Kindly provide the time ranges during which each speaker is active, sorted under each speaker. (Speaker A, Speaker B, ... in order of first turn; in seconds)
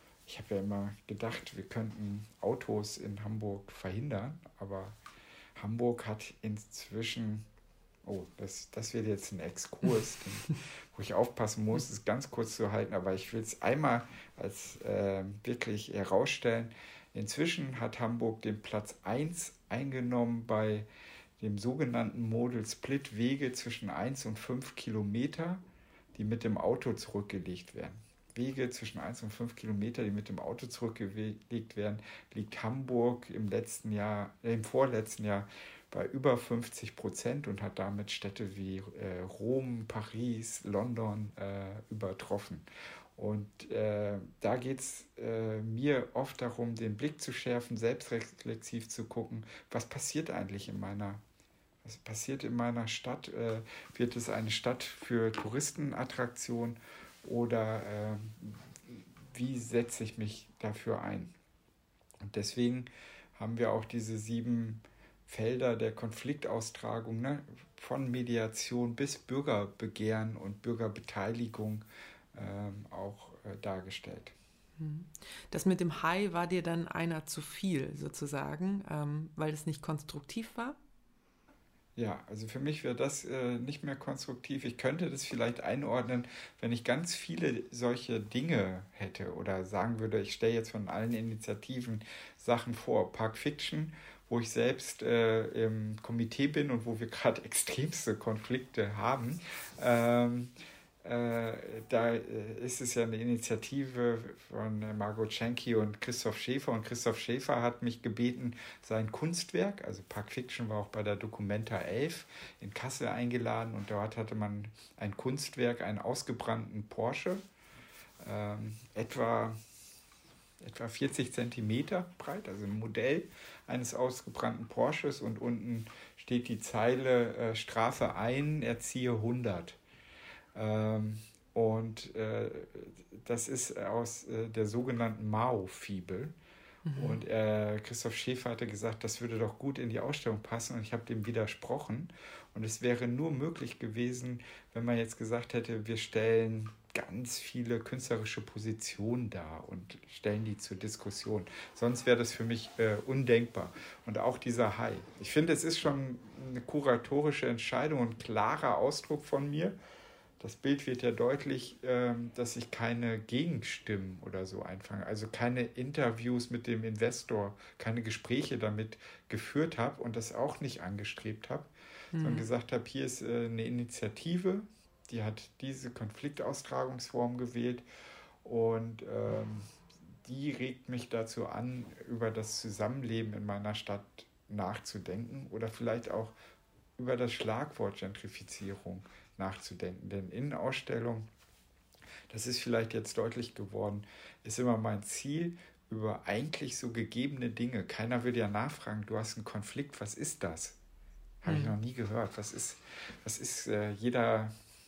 Speaker A: 0.3-5.0, 5.6-7.5, 8.1-20.9, 21.4-25.6, 26.1-42.6, 43.2-51.2, 51.8-61.3, 62.2-74.3, 82.0-100.5, 101.0-117.4, 118.2-119.6, 120.6-129.8, 130.6-136.3, 137.0-159.8, 160.4-177.8, 178.4-186.3, 187.0-191.3, 192.3-200.8, 201.4-204.5
Speaker B: 74.8-80.8, 136.8-137.2, 172.1-172.5, 201.5-201.8